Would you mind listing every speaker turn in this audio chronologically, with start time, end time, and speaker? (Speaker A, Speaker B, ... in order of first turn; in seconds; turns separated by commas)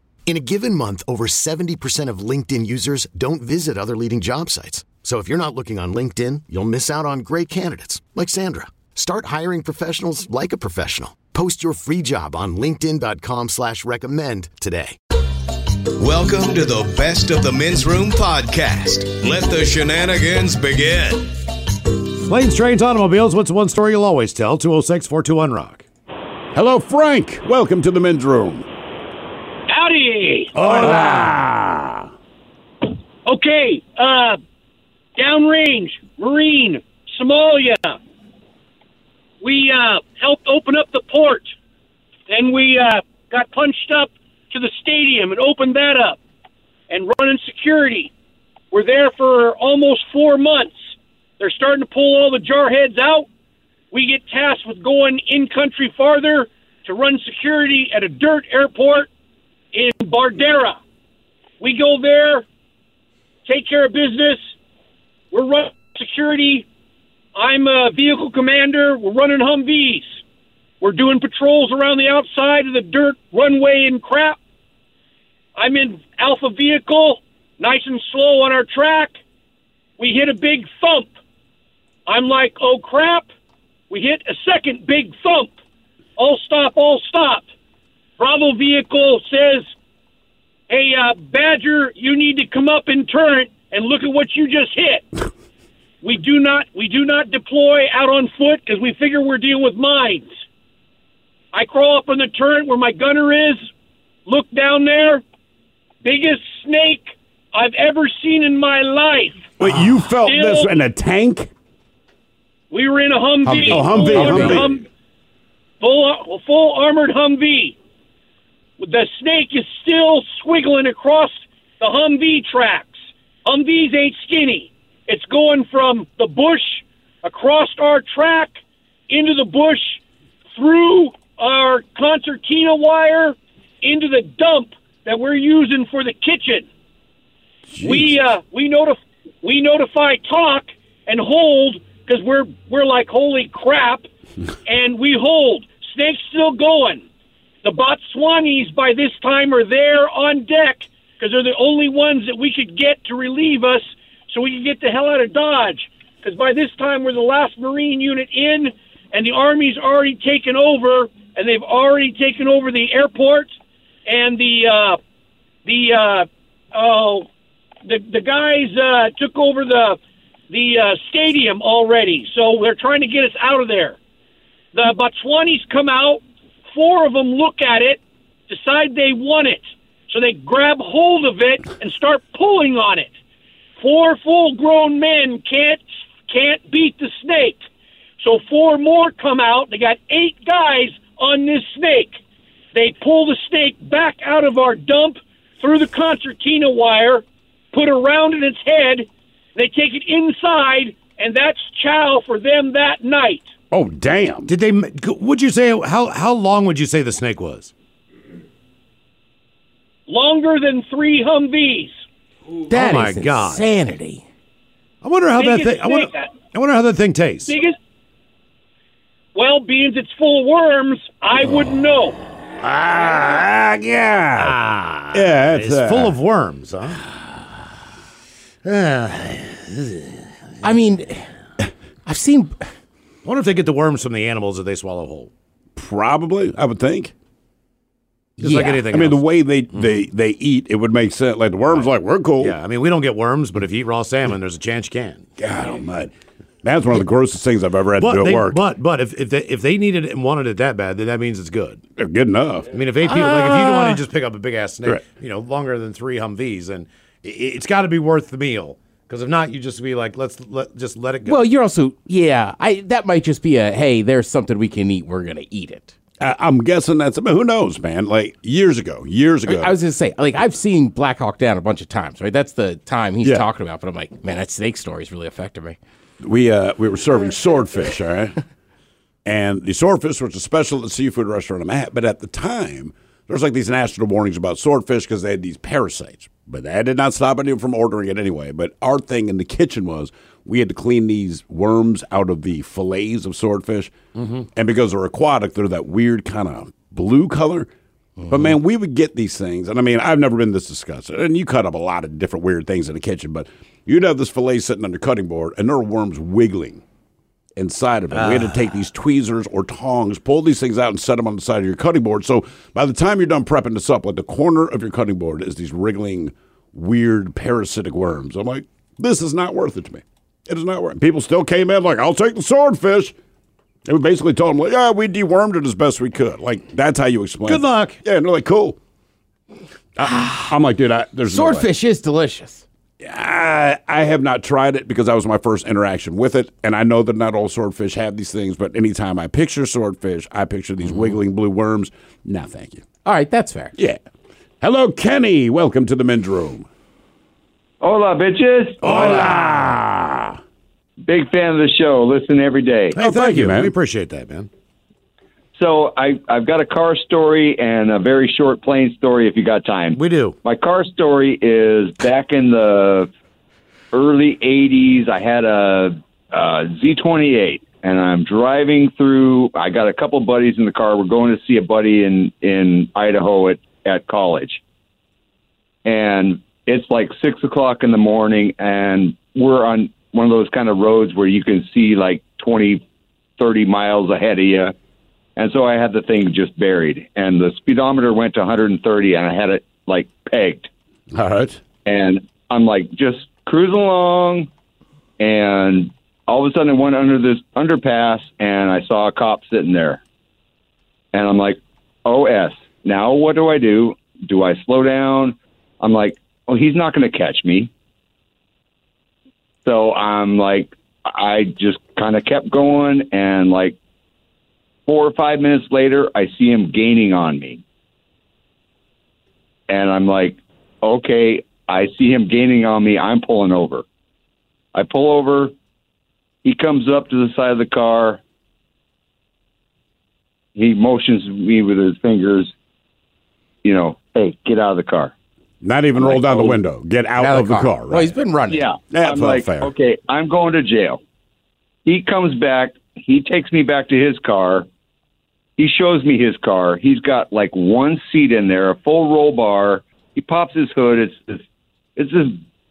Speaker A: 0.2-15.0, Speaker B: 16.0-21.3, Speaker C: 22.2-25.8, Speaker D: 26.5-28.6, Speaker E: 29.7-30.6, Speaker C: 30.6-31.3, Speaker D: 30.6-32.1, Speaker E: 33.2-34.4, Speaker E: 35.2-38.0, Speaker E: 39.4-41.5, Speaker E: 42.3-46.2, Speaker E: 46.9-48.1, Speaker E: 48.7-53.3, Speaker E: 53.9-59.1, Speaker E: 59.7-60.8, Speaker E: 61.6-62.4, Speaker E: 63.5-64.4, Speaker E: 65.3-66.7, Speaker E: 67.3-70.2, Speaker E: 70.8-74.4, Speaker E: 75.5-79.1, Speaker E: 80.0-81.1, Speaker E: 82.1-83.3, Speaker E: 83.9-85.5, Speaker E: 86.2-87.5, Speaker E: 88.2-89.7, Speaker E: 90.7-95.0, Speaker E: 96.0-100.3, Speaker E: 101.5-103.7, Speaker E: 104.2-105.2, Speaker E: 106.0-109.5, Speaker D: 109.6-111.5, Speaker E: 110.2-110.7, Speaker E: 112.7-114.8, Speaker F: 113.4-114.7, Speaker D: 113.6-114.8, Speaker E: 115.8-117.8, Speaker E: 118.8-128.6, Speaker E: 129.1-130.0, Speaker E: 130.5-136.7, Speaker D: 137.7-138.2, Speaker E: 137.8-144.1, Speaker E: 144.7-147.0, Speaker E: 147.6-163.5, Speaker E: 164.1-165.0, Speaker E: 165.6-167.2, Speaker E: 167.8-170.0, Speaker E: 170.5-174.0, Speaker E: 174.7-183.1, Speaker E: 183.8-187.6, Speaker E: 188.2-192.2, Speaker E: 192.7-203.5, Speaker D: 203.7-204.5, Speaker C: 204.4-207.7, Speaker E: 210.1-212.0, Speaker F: 212.7-214.2, Speaker C: 212.7-213.6, Speaker C: 215.0-217.5, Speaker E: 215.4-216.3, Speaker E: 217.4-217.7, Speaker E: 219.3-222.2, Speaker D: 222.6-224.6, Speaker C: 224.3-227.0, Speaker D: 225.1-226.2, Speaker C: 228.6-230.1, Speaker F: 230.6-231.2, Speaker F: 232.1-232.6, Speaker C: 233.2-235.3, Speaker D: 235.8-237.1, Speaker C: 238.4-239.2, Speaker F: 238.4-238.8, Speaker D: 238.5-242.6, Speaker C: 242.4-245.2, Speaker D: 245.4-248.6, Speaker C: 248.0-251.8, Speaker D: 251.9-252.7, Speaker C: 252.7-261.4, Speaker F: 253.0-254.0, Speaker F: 261.2-265.9, Speaker D: 266.2-269.8, Speaker F: 269.5-275.8, Speaker D: 276.2-278.4, Speaker D: 279.2-294.0, Speaker C: 294.1-294.4, Speaker D: 294.5-297.7, Speaker D: 298.3-306.8, Speaker D: 307.6-323.1, Speaker D: 323.9-328.8, Speaker C: 327.4-328.0, Speaker D: 330.0-331.7, Speaker F: 330.0-330.5, Speaker F: 331.3-332.6, Speaker D: 333.0-342.9, Speaker F: 343.0-343.7, Speaker D: 344.6-346.7, Speaker G: 347.8-348.9, Speaker D: 348.8-350.4, Speaker C: 348.8-349.3, Speaker G: 351.0-353.0, Speaker C: 352.9-354.5, Speaker D: 353.0-353.7, Speaker G: 355.5-363.1, Speaker C: 359.9-360.3, Speaker G: 363.9-374.6, Speaker G: 375.8-382.8, Speaker G: 383.4-384.7, Speaker G: 385.4-390.7, Speaker D: 391.1-391.6, Speaker G: 391.8-394.5, Speaker G: 395.2-400.0, Speaker G: 401.1-407.7, Speaker G: 409.6-413.8, Speaker G: 414.9-417.6, Speaker G: 419.7-423.8, Speaker G: 424.7-425.5, Speaker G: 426.4-428.2, Speaker G: 430.5-432.5, Speaker G: 433.6-435.1, Speaker D: 435.6-438.2, Speaker G: 436.0-436.6, Speaker F: 437.2-438.7, Speaker G: 438.5-441.0, Speaker D: 438.9-439.7, Speaker G: 441.8-444.7, Speaker G: 445.6-451.4, Speaker G: 451.9-452.4